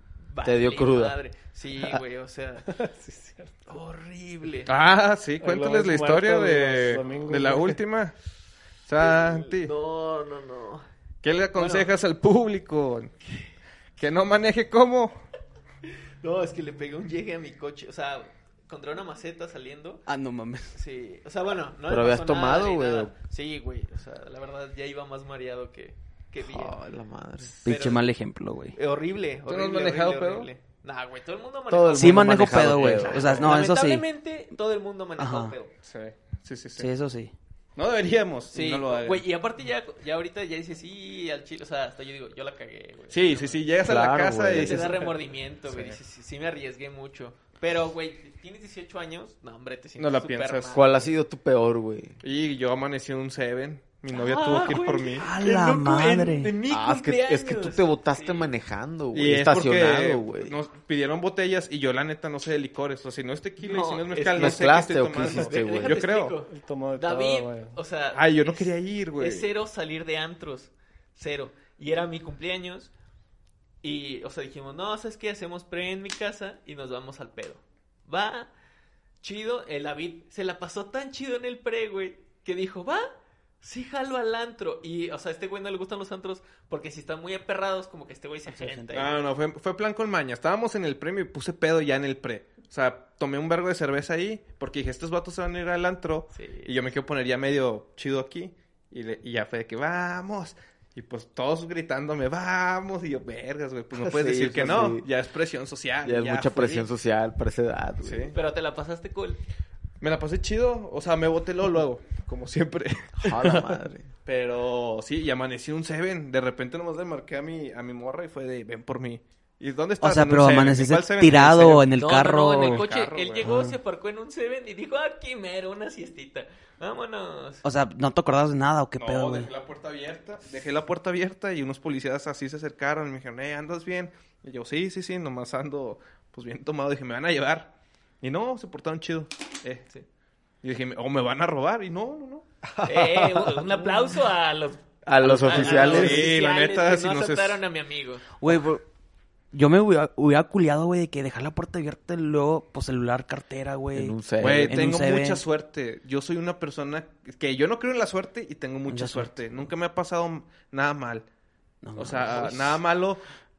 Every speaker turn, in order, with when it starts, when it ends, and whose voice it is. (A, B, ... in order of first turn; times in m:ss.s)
0:00.3-0:02.7 A
0:00.4-0:01.2 B
0:02.7-0:03.8 C
0:03.7-0:04.7 A
0:04.7-0:08.1 D
0:05.4-0:07.8 C
0:08.8-0:09.7 D
0:09.0-0:10.8 A
0:11.2-0:13.1 D
0:11.5-0:11.9 A
0:14.0-0:15.2 D
0:16.2-0:20.0 A
0:20.1-0:20.7 E
0:20.7-0:26.8 A
0:21.9-0:23.1 B
0:26.4-0:27.5 B
0:27.5-0:28.1 A
0:27.6-0:28.8 E
0:28.7-0:35.7 A
0:29.5-0:30.5 D
0:31.7-0:33.5 B
0:31.9-0:34.0 E
0:33.0-0:33.3 D
0:35.2-0:35.5 E
0:35.8-0:36.9 D
0:36.8-0:37.3 E
0:37.8-0:39.2 D
0:38.5-0:43.6 A
0:43.1-0:45.2 D
0:43.8-0:44.9 B
0:44.5-0:51.0 A
0:45.7-0:46.0 D
0:50.0-0:50.8 D
0:50.7-0:52.2 B
0:52.2-0:55.2 D
0:54.1-0:58.5 A
0:55.2-0:56.5 E
0:56.7-1:00.6 B
0:59.1-1:06.3 D
1:03.6-1:04.7 A
1:04.4-1:06.0 B
1:05.2-1:12.9 A
1:06.5-1:07.8 C
1:08.1-1:09.5 D
1:13.8-1:18.5 A
1:19.2-1:23.1 A
1:23.6-1:29.2 A
1:28.5-1:29.1 E
1:28.9-1:46.9 D
1:36.3-1:36.8 A
1:44.0-1:45.0 B
1:46.0-1:48.3 B
1:48.0-1:48.3 D
1:48.3-1:49.4 A
1:50.0-1:53.6 D
1:53.2-1:54.1 B
1:54.2-2:01.9 D
2:00.0-2:02.8 E
2:02.0-2:07.6 A
2:02.5-2:03.4 D
2:03.4-2:03.7 E
2:07.6-2:09.5 E
2:09.0-2:19.9 D
2:20.6-2:22.4 D
2:22.7-2:23.7 B
2:22.8-2:28.3 A
2:25.0-2:26.3 B
2:25.5-2:27.6 D
2:28.4-2:28.8 E
2:29.5-2:35.4 E
2:33.9-2:34.8 B
2:34.4-2:41.2 D
2:38.9-2:39.4 E
2:41.8-2:42.8 E
2:42.0-2:43.2 D